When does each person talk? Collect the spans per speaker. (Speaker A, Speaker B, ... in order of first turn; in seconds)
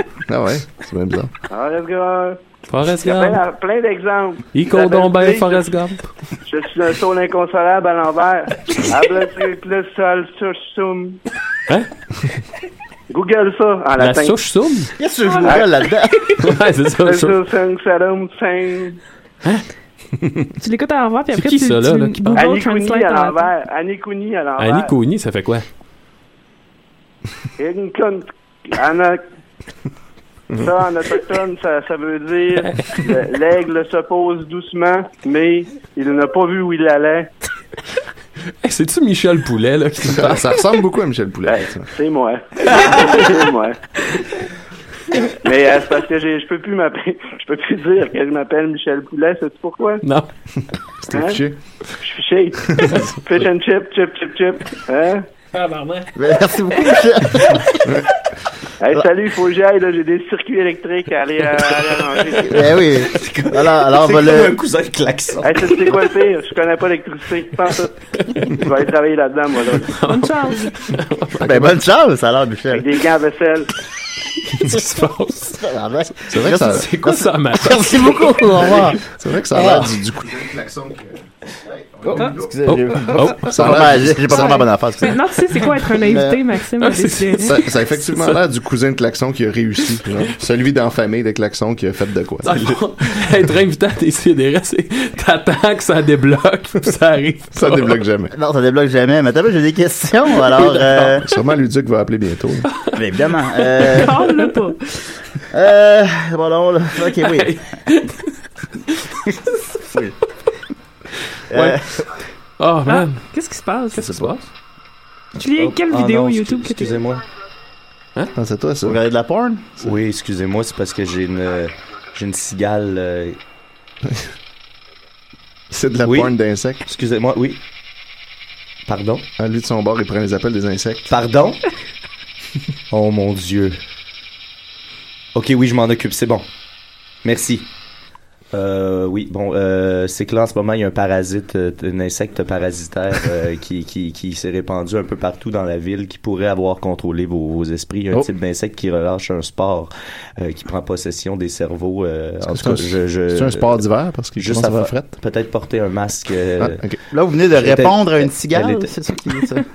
Speaker A: 0.3-1.3, 40.0-41.9, 51.0-51.6, 52.7-53.0, 76.3-76.9, 79.0-84.6, 87.4-92.9, 97.5-98.3, 101.0-102.7, 118.3-119.0, 125.7-126.8, 129.4-131.1, 152.4-155.1, 156.6-157.0
Speaker B: 1.5-2.4, 3.0-5.7, 6.5-11.2, 13.1-14.3, 17.0-19.0, 22.3-24.9, 27.6-29.2, 30.6-37.3, 41.5-43.8, 45.3-50.0, 51.1-51.4, 52.0-55.2, 58.8-62.6, 65.4-70.0, 72.7-73.7
Speaker C: 2.7-3.4, 4.5-6.0, 14.0-14.9, 16.4-17.4, 21.3-22.5, 24.6-25.6, 32.6-32.9, 38.6-40.5, 50.0-50.3, 55.5-56.1, 69.9-71.7, 74.5-75.6, 76.3-78.8, 82.7-83.6, 86.8-88.4, 92.4-98.0, 100.6-101.1, 103.8-104.1, 107.0-108.3, 111.5-111.8, 112.6-113.2, 113.9-114.5
Speaker D: 15.0-16.5, 56.1-57.7, 62.4-64.6, 71.4-72.9, 75.6-79.9, 82.0-85.2, 86.0-86.4, 98.3-101.2, 103.0-104.3, 105.5-107.6, 111.5-112.1, 118.8-119.7, 157.1-159.7
Speaker E: 20.6-23.5, 70.0-70.7, 84.3-87.7, 103.8-104.8, 112.9-114.2, 115.3-117.0
Speaker F: 63.1-65.8, 115.5-117.2, 119.8-123.4, 126.0-126.3, 126.8-127.6, 128.8-129.3, 131.1-131.6, 132.9-133.8, 135.3-136.5, 137.2-137.7, 138.5-156.9, 157.5-158.9